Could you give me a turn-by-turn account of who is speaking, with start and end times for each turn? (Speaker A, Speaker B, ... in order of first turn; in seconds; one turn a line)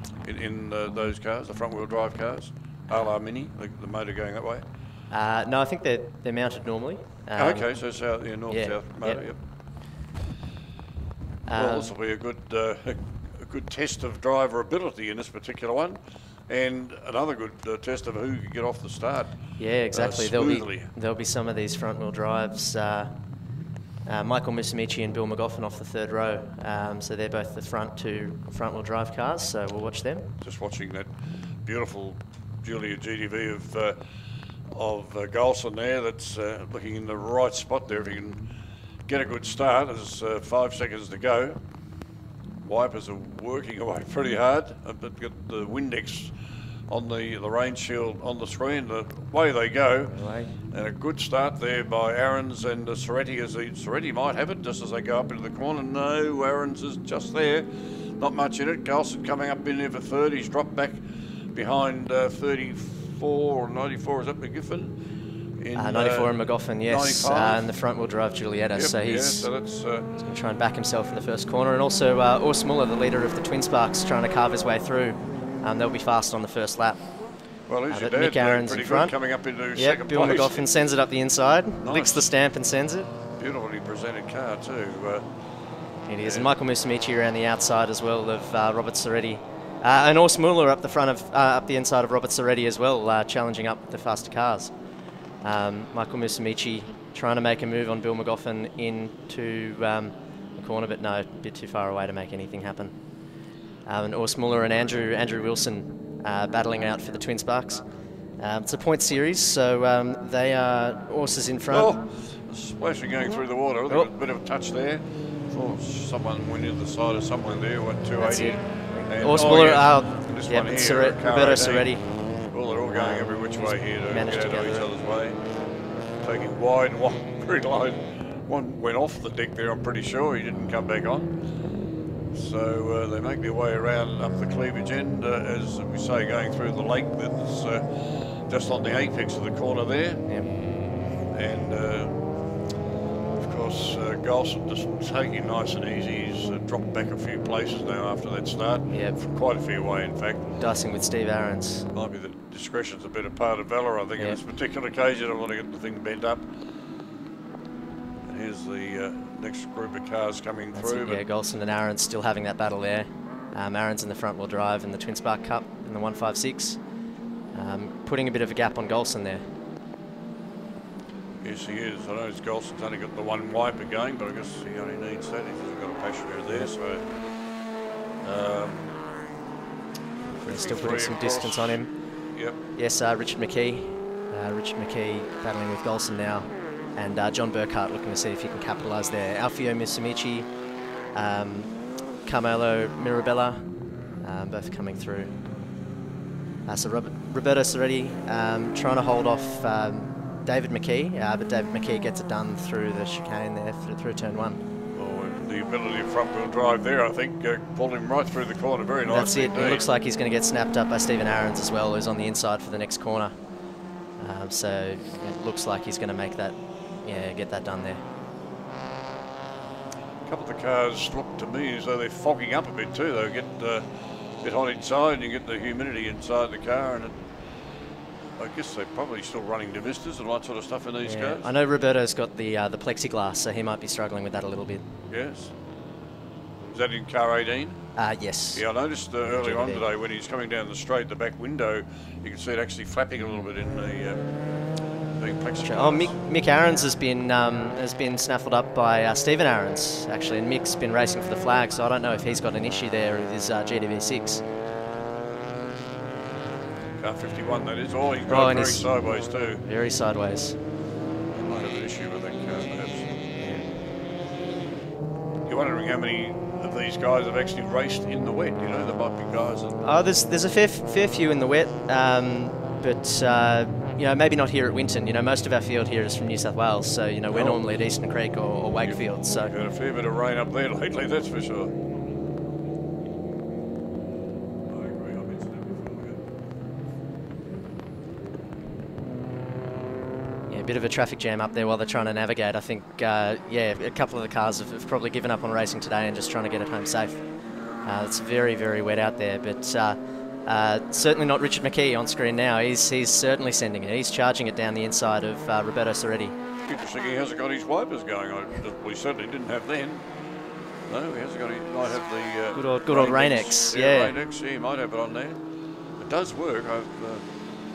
Speaker A: 0.2-4.6
Speaker B: 5.1-7.7
Speaker A: 7.3-9.4
Speaker B: 8.5-9.3
Speaker B: 11.5-11.9
Speaker A: 11.5-20.9
Speaker B: 19.6-23.1
Speaker B: 24.0-30.3
Speaker A: 30.4-31.1
Speaker A: 31.6-34.0
Speaker A: 34.7-38.4
Speaker A: 39.1-41.6
Speaker A: 42.6-46.3
Speaker A: 46.9-57.7
Speaker B: 50.1-50.5
Speaker A: 58.2-61.0
Speaker A: 61.5-64.9
Speaker A: 65.6-67.7
Speaker B: 65.7-69.5
Speaker A: 68.7-70.1
Speaker B: 70.2-77.1
Speaker A: 77.7-80.7
Speaker B: 77.9-79.1
Speaker B: 79.7-83.1
Speaker A: 81.8-82.3
Speaker A: 83.4-85.2
Speaker B: 86.1-94.7
Speaker A: 86.2-86.5
Speaker B: 95.4-103.0
Speaker B: 103.8-107.8
Speaker B: 108.4-111.9
Speaker A: 111.7-125.4
Speaker B: 118.2-122.3
Speaker B: 122.9-124.9
Speaker A: 126.2-131.3
Speaker A: 132.3-140.2
Speaker B: 140.2-140.6
Speaker A: 141.3-142.2
Speaker A: 143.3-150.6
Speaker B: 148.9-149.2
Speaker B: 150.6-151.9
Speaker A: 151.9-156.5
Speaker A: 158.2-161.2
Speaker B: 160.7-166.8
Speaker B: 167.5-169.4
Speaker A: 171.4-177.1
Speaker A: 178.2-178.9
Speaker B: 180.4-181.9
Speaker A: 180.4-182.6
Speaker B: 182.7-190.5
Speaker B: 191.1-193.7
Speaker B: 194.2-195.3
Speaker B: 196.7-204.6
Speaker A: 204.9-209.8
Speaker B: 209.0-213.3
Speaker B: 214.2-218.0
Speaker A: 220.2-223.8
Speaker A: 224.4-227.2
Speaker A: 228.4-231.5
Speaker B: 231.0-234.8
Speaker A: 235.1-235.5
Speaker A: 236.7-237.9
Speaker B: 237.9-238.7
Speaker A: 238.5-244.2
Speaker B: 239.2-239.8
Speaker A: 245.1-246.2
Speaker B: 245.6-254.4
Speaker A: 257.0-259.6
Speaker B: 258.3-259.0
Speaker B: 259.6-260.6
Speaker A: 261.3-263.1
Speaker B: 263.4-263.8
Speaker A: 265.4-269.8
Speaker B: 269.8-279.5
Speaker A: 277.3-277.8
Speaker A: 278.8-281.7
Speaker A: 284.7-286.2
Speaker B: 290.5-297.2
Speaker B: 297.8-306.3
Speaker A: 306.6-310.0
Speaker A: 310.9-315.4
Speaker B: 312.5-314.1
Speaker A: 316.0-317.2